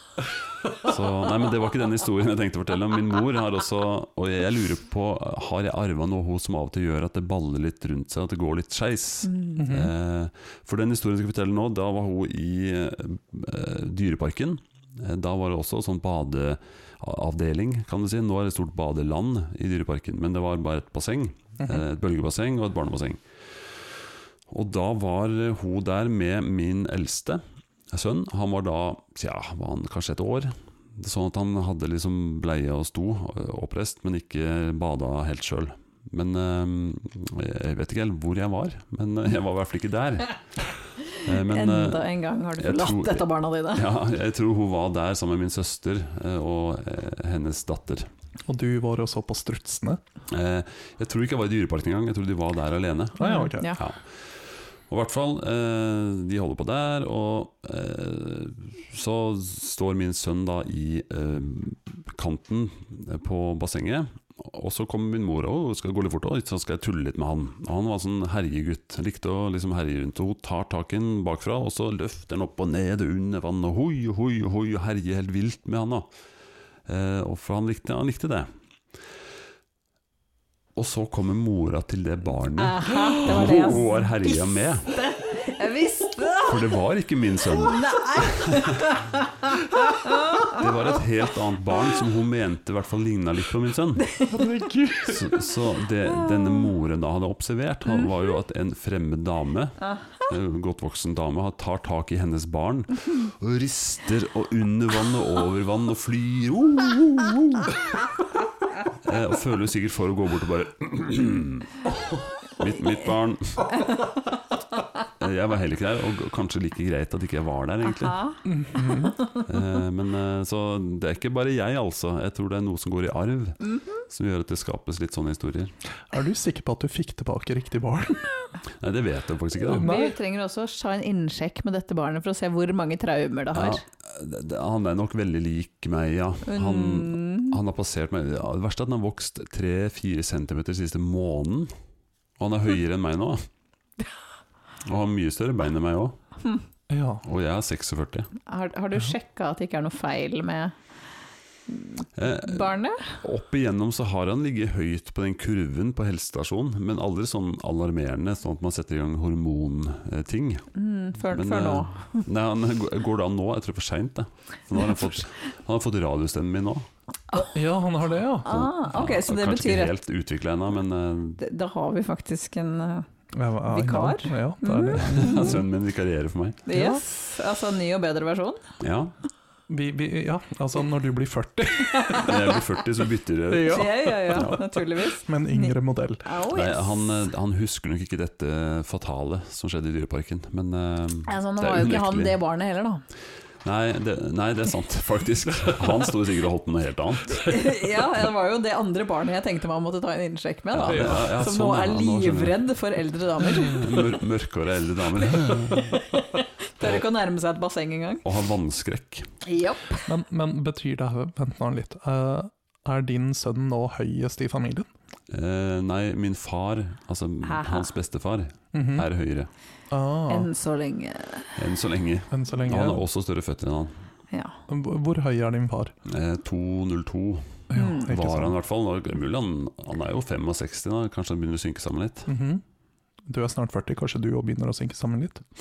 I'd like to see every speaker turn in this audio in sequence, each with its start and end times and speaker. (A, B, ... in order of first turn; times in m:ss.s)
0:00.7-0:23.2 A
0:09.3-0:09.6 B
0:09.6-0:09.9 C
0:24.5-0:40.4 A
0:41.1-0:48.1 A
0:41.2-0:43.9 B
0:48.5-0:50.0 C
0:50.3-0:54.4 A
0:53.2-0:53.8 B
0:53.2-0:53.7 C
0:54.9-1:16.1 A
1:16.9-1:18.5 A
1:20.8-1:25.0 A
1:22.6-1:26.7 B
1:26.4-1:28.8 A
1:27.6-1:30.6 B
1:30.4-1:34.2 A
1:34.3-1:35.4 C
1:35.1-1:47.8 A
1:49.0-1:51.7 A
1:52.5-1:53.8 A
1:55.2-1:58.3 A
1:57.9-1:58.4 B
1:58.5-1:59.2 C
1:59.4-2:05.7 A
2:06.1-2:08.3 C
2:08.8-2:09.9 A
2:09.6-2:13.8 B
2:09.6-2:10.1 C
2:13.5-2:21.7 A
2:16.4-2:17.6 B
2:22.4-2:23.5 A
2:24.8-2:26.2 A
2:26.9-2:27.2 C
2:27.2-2:28.3 A
2:28.5-2:30.8 B
2:31.7-2:33.2 B
2:32.2-2:40.7 A
2:40.7-2:42.3 B
2:41.3-2:46.9 A
2:47.4-2:48.5 C
2:48.4-2:49.9 B
2:48.4-2:51.4 A
2:51.4-2:53.1 B
2:53.3-2:55.6 C
2:53.7-2:55.6 B
2:55.0-2:56.6 A
2:56.6-2:58.6 B
2:56.7-2:57.0 C
2:58.8-2:59.1 A
2:59.7-3:02.5 C
3:01.9-3:02.3 B
3:02.2-3:04.6 A
3:03.5-3:06.2 C
3:03.6-3:07.1 B
3:06.5-3:12.4 A
3:11.3-3:13.0 B
3:13.6-3:17.7 A
3:17.3-3:24.1 B
3:20.8-3:22.6 A
3:20.9-3:21.2 C
3:23.4-3:26.0 A
3:25.7-3:28.2 B
3:28.2-3:29.3 A
3:29.4-3:30.1 B
3:30.1-3:34.9 C
3:35.3-3:39.5 A
3:37.4-3:37.9 B
3:38.7-3:39.1 C
3:39.9-3:40.5 C
3:40.3-3:41.5 B
3:41.6-3:44.0 A
3:42.3-3:43.0 C
3:44.7-3:46.0 C
3:46.1-3:52.3 A
3:47.7-3:48.6 C
3:47.8-3:48.1 B
3:52.3-3:52.6 C
3:53.3-3:55.4 C